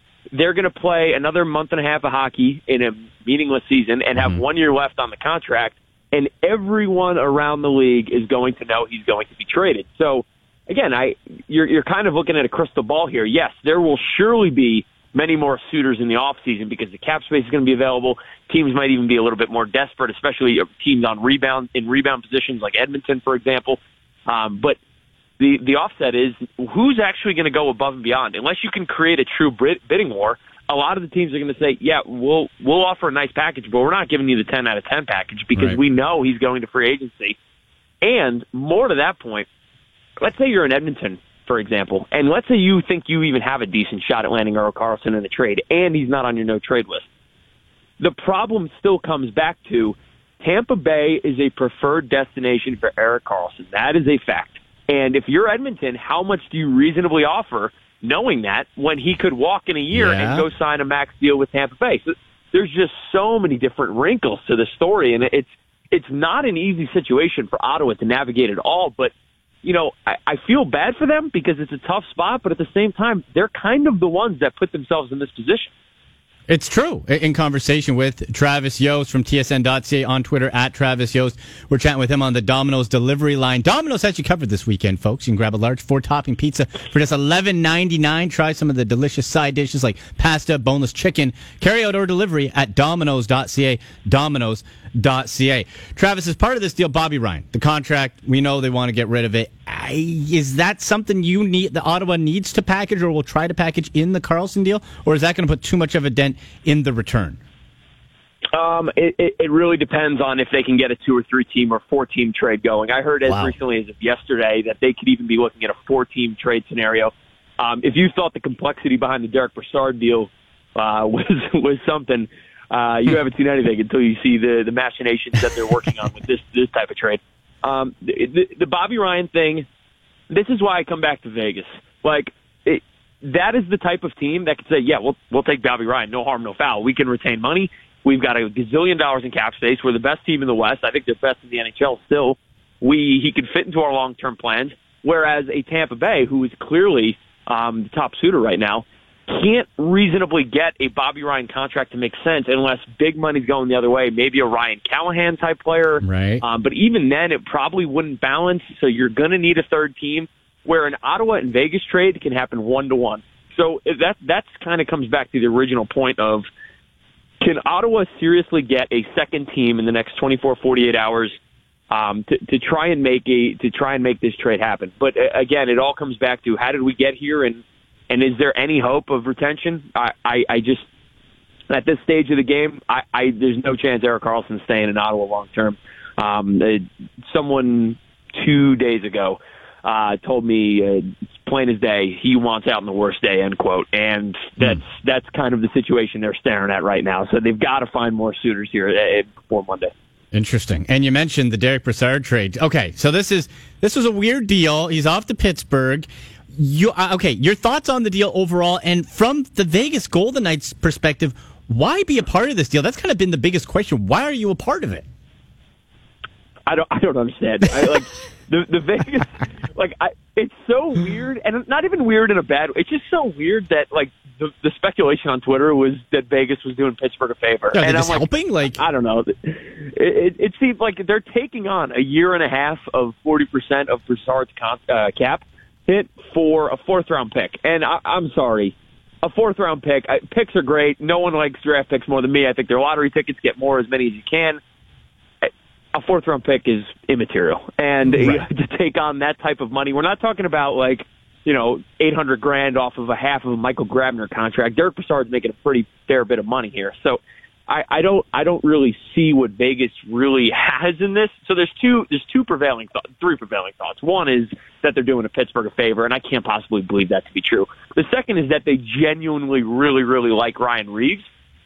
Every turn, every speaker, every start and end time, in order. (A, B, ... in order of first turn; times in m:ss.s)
0:00.3-0:24.8 A
0:25.4-0:37.4 A
0:38.0-0:39.5 A
0:40.2-0:47.1 A
0:48.0-1:09.1 A
0:59.9-1:00.4 B
1:09.6-1:15.7 A
1:16.5-1:47.4 B
1:48.5-2:09.6 A
1:53.2-1:53.5 B
2:10.3-2:46.5 A
2:36.0-2:36.4 B
2:47.4-2:51.4 A
2:51.9-3:00.8 A
3:01.7-3:19.9 A
3:20.3-3:35.0 B
3:36.7-4:04.6 A
3:47.7-3:48.8 B
4:05.4-4:31.3 A
4:08.1-4:08.4 B